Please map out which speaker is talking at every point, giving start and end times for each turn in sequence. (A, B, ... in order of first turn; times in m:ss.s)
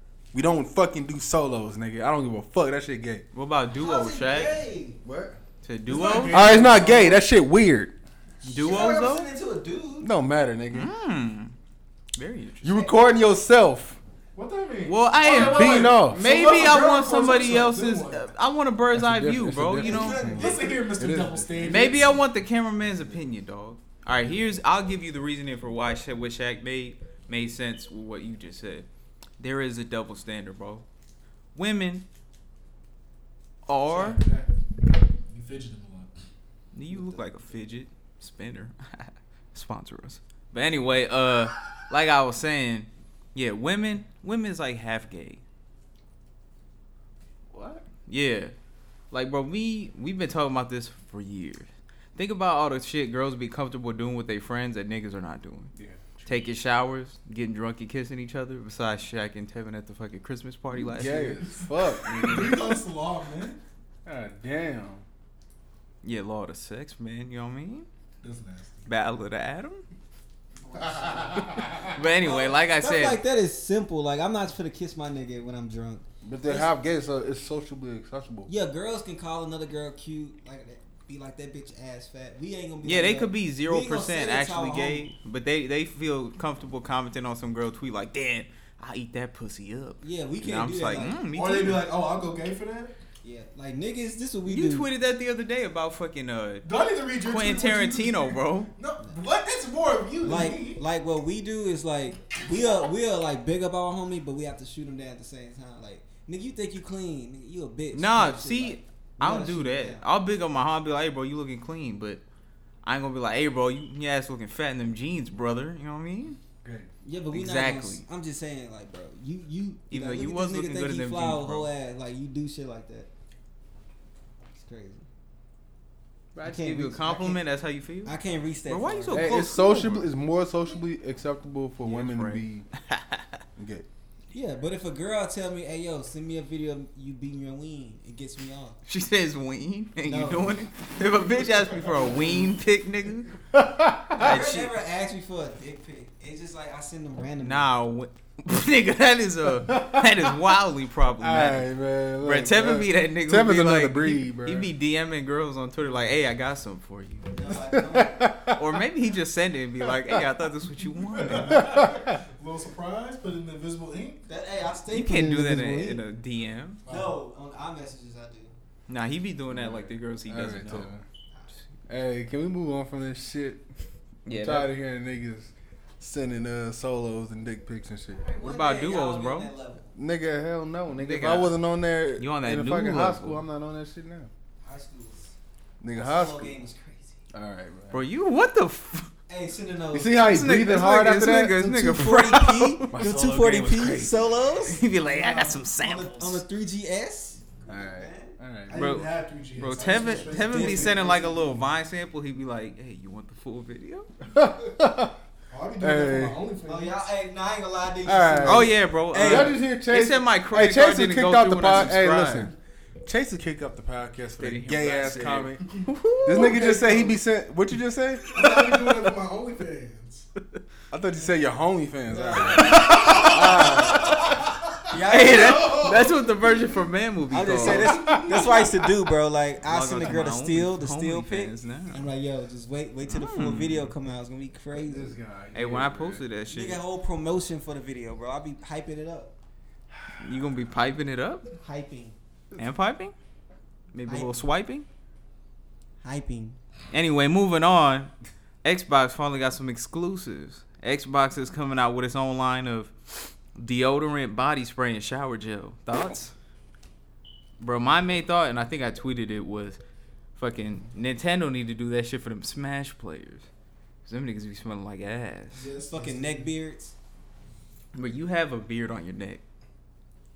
0:00.3-0:03.2 A
0:03.3-0:04.6 B
0:03.8-0:05.0 C
0:05.0-0:05.4 A
0:05.6-0:06.7 B
0:05.9-0:07.2 D
0:06.2-0:08.0 A
0:08.4-0:09.3 B
0:08.4-0:10.1 C
0:10.0-0:10.9 A
0:10.7-0:11.5 B
0:12.2-0:12.9 B
0:12.6-0:14.0 A
0:14.3-0:18.3 D
0:14.8-0:20.3 B
0:15.3-0:16.2 A
0:18.9-0:21.9 A
0:19.8-0:20.8 C
0:20.0-0:22.1 D
0:21.6-0:28.9 B
0:29.4-0:30.8 B
0:31.5-0:32.0 B
0:33.6-0:34.2 B
0:33.9-0:34.5 D
0:35.3-0:36.1 D
0:36.7-0:45.4 B
0:47.8-0:48.5 B
0:49.1-0:55.7 B
0:55.7-0:56.5 A
0:56.2-1:01.6 B
1:00.7-1:02.7 A
1:02.1-1:03.6 D
1:04.0-1:05.0 A
1:06.0-1:07.9 B
1:08.2-1:08.8 D
1:08.8-1:09.8 B
1:10.6-1:16.7 C
1:10.9-1:11.7 D
1:11.8-1:13.2 B
1:16.2-1:18.5 A
1:18.5-1:25.0 C
1:22.8-1:31.9 B
1:30.0-1:31.2 C
1:31.3-1:32.9 D
1:33.2-1:34.9 C
1:34.4-1:36.7 B
1:36.6-1:40.8 D
1:37.2-1:38.7 B
1:40.2-1:50.0 C
1:47.9-1:52.2 B
1:52.8-1:56.4 B
1:56.6-1:56.9 A
1:57.0-2:03.1 C
1:57.3-1:58.0 B
1:59.9-2:01.7 B
2:04.5-2:05.0 C
2:06.3-2:10.1 B
2:06.4-2:07.4 C
2:08.0-2:09.5 C
2:09.1-2:12.6 A
2:11.8-2:13.4 B
2:13.6-2:13.9 A
2:14.3-2:18.8 C
2:18.9-2:23.3 B
2:20.0-2:20.5 C
2:23.5-2:24.4 A
2:24.2-2:24.8 B
2:24.2-2:27.7 C
2:27.4-2:37.3 B
2:29.6-2:30.4 A
2:31.2-2:34.7 A
2:37.3-2:38.3 C
2:37.6-2:38.8 A
2:38.6-2:41.7 B
2:39.8-2:40.3 A
2:41.1-2:44.2 D
2:41.4-2:42.2 A
2:44.2-2:46.0 C
2:44.9-2:46.8 B
2:46.9-2:47.2 D
2:46.9-2:48.5 C
2:48.9-2:50.9 B
2:49.5-2:51.0 A
2:51.9-2:53.7 A
2:54.2-2:54.7 B
2:54.2-2:58.2 A
2:58.1-2:59.9 C
2:58.4-2:59.5 B
2:59.9-3:04.3 A
3:01.0-3:01.5 B
3:02.2-3:03.4 B
3:04.6-3:05.3 C
3:05.8-3:06.5 A
3:06.0-3:07.2 C
3:07.3-3:08.0 A
3:07.9-3:09.1 B
3:09.3-3:10.2 C
3:09.9-3:12.1 A
3:10.2-3:16.4 B
3:11.8-3:18.3 C
3:12.9-3:13.6 A
3:17.7-3:18.8 A
3:18.7-3:21.4 D
3:18.7-3:24.1 B
3:19.7-3:21.6 C
3:24.3-3:25.2 A
3:25.5-3:27.1 D
3:25.8-3:26.4 A
3:26.6-3:29.6 C
3:28.0-3:32.5 A
3:28.4-3:32.5 B
3:33.0-3:35.6 A
3:34.4-3:36.6 B
3:36.2-3:38.3 A
3:36.3-3:37.2 D
3:38.3-3:40.3 D
3:38.4-3:38.9 B
3:40.9-3:44.5 A
3:42.1-3:43.2 D
3:42.1-3:44.2 C
3:42.5-3:44.2 B
3:44.9-3:46.0 C
3:45.1-3:48.2 B
3:47.3-3:55.2 C
3:47.6-3:48.7 A
3:49.6-3:52.0 B
3:53.1-3:53.9 B
3:54.8-3:56.2 A
3:55.5-3:56.8 B
3:56.5-3:59.3 C
4:00.2-4:01.5 B
4:01.6-4:02.2 C
4:02.6-4:03.1 B
4:03.9-4:04.8 B
4:04.1-4:04.4 C
4:06.0-4:06.6 C
4:06.9-4:08.1 B
4:08.6-4:16.3 B
4:17.6-4:19.8 B
4:20.4-4:23.5 B
4:24.0-4:25.7 B
4:25.5-4:26.5 D
4:25.9-4:26.9 C
4:27.9-4:29.4 B